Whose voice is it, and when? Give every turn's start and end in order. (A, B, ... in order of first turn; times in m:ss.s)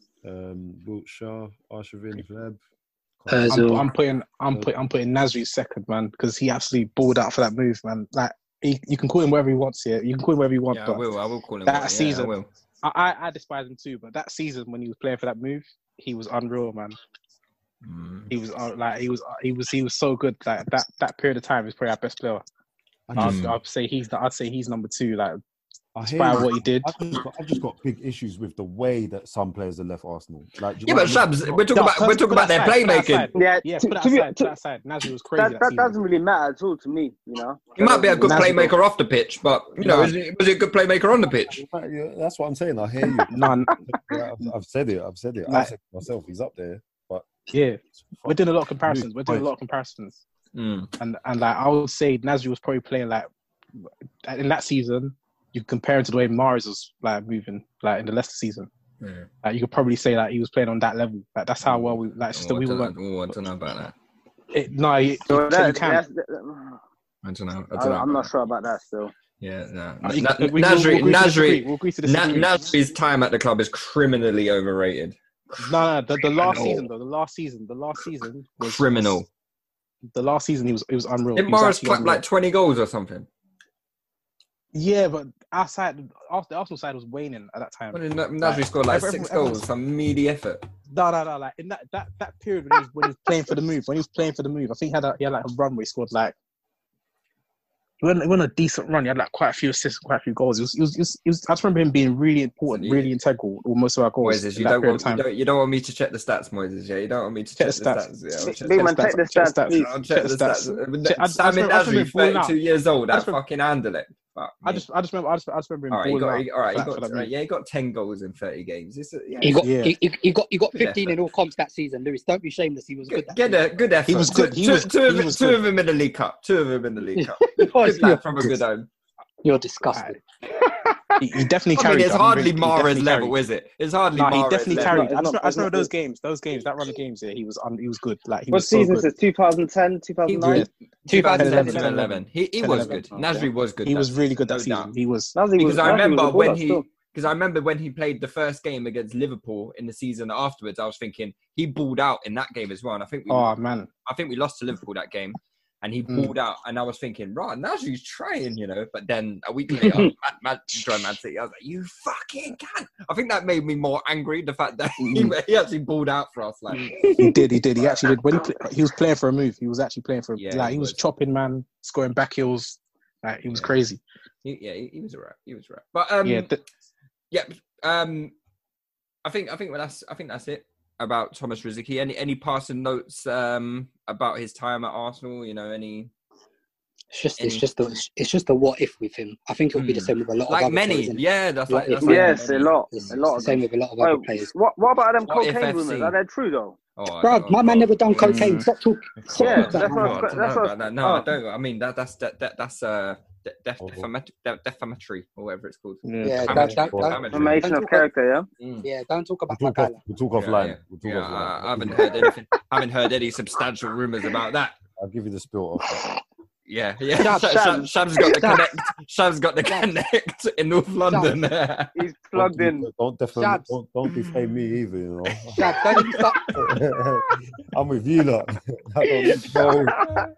0:00.2-0:02.6 A
0:03.2-0:03.9 A
0:03.3-0:03.9 B
0:03.5-0:11.0 C
0:10.7-0:12.5 D
0:11.7-0:17.0 C
0:17.8-0:18.3 D
0:18.3-0:22.4 C
0:23.1-0:23.4 A
0:23.1-0:25.4 C
0:23.2-0:23.6 D
0:26.0-0:31.4 A
0:26.0-0:27.2 C
0:30.9-0:33.3 D
0:31.6-0:36.0 C
0:33.3-0:34.5 E
0:35.4-0:38.7 E
0:37.8-0:41.6 D
0:38.2-0:38.7 C
0:39.8-0:40.1 C
0:41.5-0:47.4 A
0:43.3-0:43.8 C
0:45.5-0:45.7 C
0:47.5-0:50.2 C
0:48.0-0:49.5 A
0:50.5-0:50.9 D
0:51.0-0:53.3 C
0:54.2-0:58.7 C
0:59.0-0:59.3 D
0:59.4-1:03.4 C
1:01.6-1:03.9 D
1:04.5-1:06.0 C
1:05.3-1:06.8 E
1:07.2-1:08.3 D
1:07.7-1:09.1 E
1:09.4-1:15.8 D
1:10.0-1:12.7 C
1:15.6-1:19.2 C
1:16.4-1:16.9 D
1:18.6-1:19.3 D
1:20.1-1:22.2 C
1:21.4-1:23.3 D
1:24.7-1:29.6 C
1:27.9-1:30.6 D
1:30.9-1:36.4 C
1:38.0-1:45.2 C
1:42.7-1:43.1 D
1:44.2-1:49.0 D
1:47.6-1:48.0 C
1:48.4-1:49.9 E
1:48.7-1:52.6 C
1:49.7-1:54.9 D
1:53.1-1:53.4 C
1:54.6-1:57.3 C
1:55.9-1:59.7 D
1:59.4-2:03.6 B
1:59.6-2:00.0 C
2:00.7-2:01.2 D
2:03.1-2:08.9 D
2:04.1-2:05.6 C
2:07.2-2:08.6 B
2:09.4-2:10.2 B
2:09.9-2:10.2 C
2:11.2-2:13.4 C
2:11.8-2:15.2 D
2:14.1-2:19.1 C
2:14.7-2:15.9 E
2:18.5-2:20.7 E
2:20.3-2:24.9 D
2:20.4-2:25.8 C
2:21.1-2:21.9 B
2:25.4-2:26.8 E
2:25.6-2:47.0 D
2:33.3-2:33.9 C
2:36.1-2:36.4 C
2:39.8-2:40.1 E
2:45.0-2:45.3 C
2:47.0-2:47.3 E
2:47.2-2:54.0 C
2:47.8-2:48.2 D
2:50.4-2:51.0 D
2:54.4-2:56.5 D
2:56.2-2:56.6 C
2:57.3-2:58.3 D
2:59.2-3:06.1 D
3:07.1-3:14.5 B
3:07.4-3:07.6 D
3:09.7-3:12.7 D
3:12.0-3:16.8 E
3:15.3-3:16.1 D
3:17.0-3:18.6 D
3:17.2-3:20.3 B
3:18.3-3:18.7 C
3:19.3-3:21.3 E
3:19.3-3:27.6 D
3:23.8-3:24.1 A
3:26.0-3:26.8 C
3:26.2-3:28.1 B
3:26.7-3:27.6 A
3:27.3-3:28.5 E
3:28.6-3:28.9 D
3:28.8-3:30.0 B
3:29.5-3:32.3 A
3:30.4-3:34.8 D
3:35.0-3:36.1 A
3:36.7-3:41.9 D
3:37.2-3:37.6 B
3:37.4-3:37.9 E
3:38.2-3:38.7 B
3:39.6-3:39.9 B
3:41.1-3:41.4 B
3:42.0-3:42.9 E
3:42.4-3:45.7 A
3:43.4-3:43.7 B
3:45.5-3:46.4 B
3:45.9-3:46.6 D
3:46.5-3:50.0 A
3:49.2-3:50.0 E
3:50.0-3:50.3 D